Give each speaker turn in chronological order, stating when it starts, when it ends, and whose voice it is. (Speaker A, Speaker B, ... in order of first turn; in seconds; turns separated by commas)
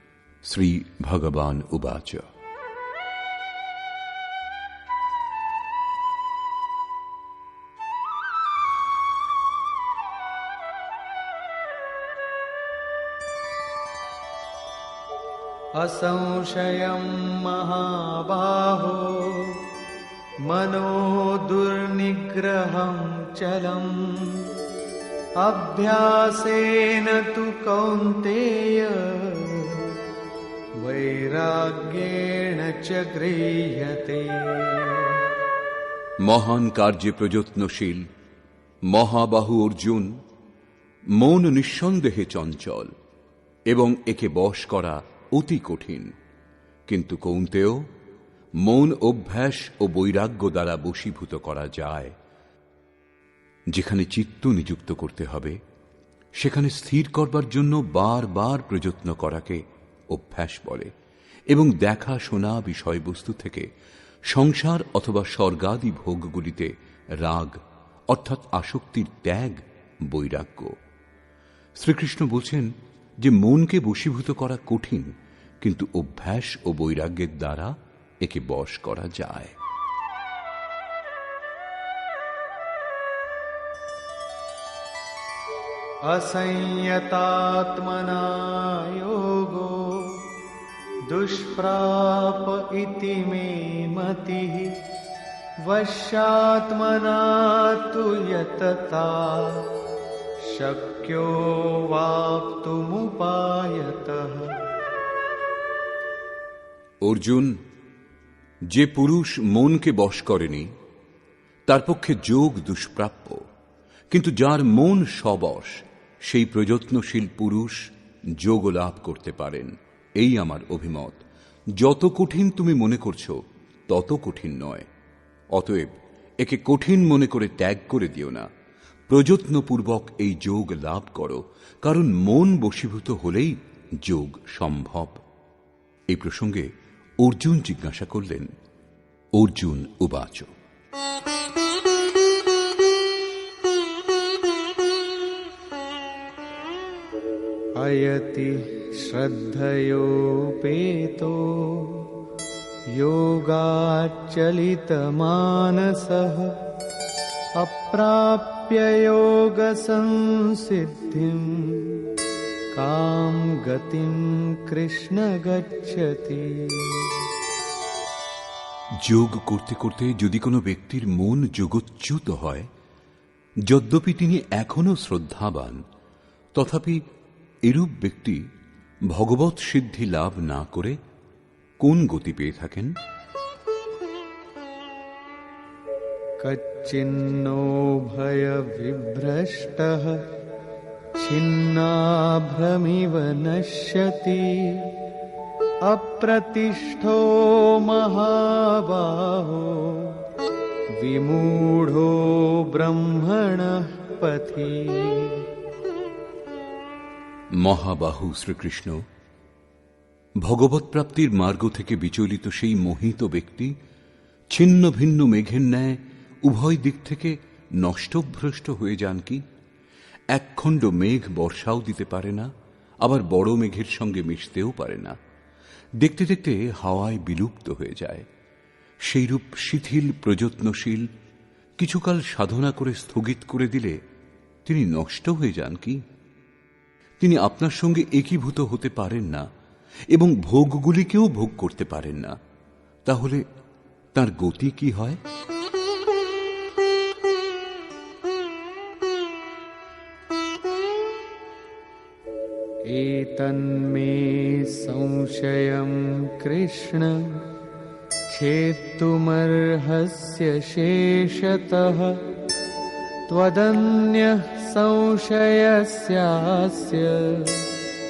Speaker A: 0.4-2.3, Speaker B: 15.8-19.7, Speaker B: 20.4-24.6, Speaker B: 25.4-30.0, Speaker B: 30.8-35.3, Speaker A: 36.2-38.1, Speaker A: 38.9-40.2, Speaker A: 41.1-42.9, Speaker A: 43.7-46.1, Speaker A: 46.9-47.9, Speaker A: 48.6-52.1, Speaker A: 53.7-55.6, Speaker A: 56.4-60.9, Speaker A: 61.5-63.7, Speaker A: 64.3-67.6, Speaker A: 68.1-70.8, Speaker A: 71.8-72.7, Speaker A: 73.2-79.5, Speaker B: 86.1-90.3, Speaker B: 91.1-94.8, Speaker B: 95.6-99.8, Speaker B: 100.4-104.6, Speaker A: 107.0-107.6, Speaker A: 108.7-110.7, Speaker A: 111.7-113.4, Speaker A: 114.1-121.2, Speaker A: 121.8-124.9, Speaker A: 125.5-128.5, Speaker A: 129.1-135.2, Speaker A: 136.1-136.7, Speaker A: 137.2-138.5, Speaker A: 139.3-140.5, Speaker B: 147.8-152.1, Speaker B: 152.9-156.6, Speaker B: 157.6-162.1, Speaker B: 162.7-167.2, Speaker A: 169.0-172.7, Speaker A: 173.6-175.8, Speaker A: 176.5-177.0, Speaker A: 177.6-178.4, Speaker A: 179.1-181.0, Speaker A: 181.8-183.0, Speaker B: 186.4-190.3, Speaker B: 191.2-195.0, Speaker B: 195.8-200.3, Speaker B: 201.0-205.5, Speaker A: 207.6-209.0, Speaker A: 210.4-213.8, Speaker A: 214.5-219.4, Speaker A: 220.3-222.5, Speaker A: 223.0-225.2, Speaker A: 226.0-228.3, Speaker A: 229.0-231.1, Speaker A: 231.8-234.0, Speaker A: 234.6-236.0, Speaker A: 237.2-239.5, Speaker A: 240.1-242.3, Speaker A: 243.1-243.4, Speaker A: 244.1-245.2, Speaker B: 252.9-257.5, Speaker B: 258.3-262.3, Speaker B: 263.3-267.7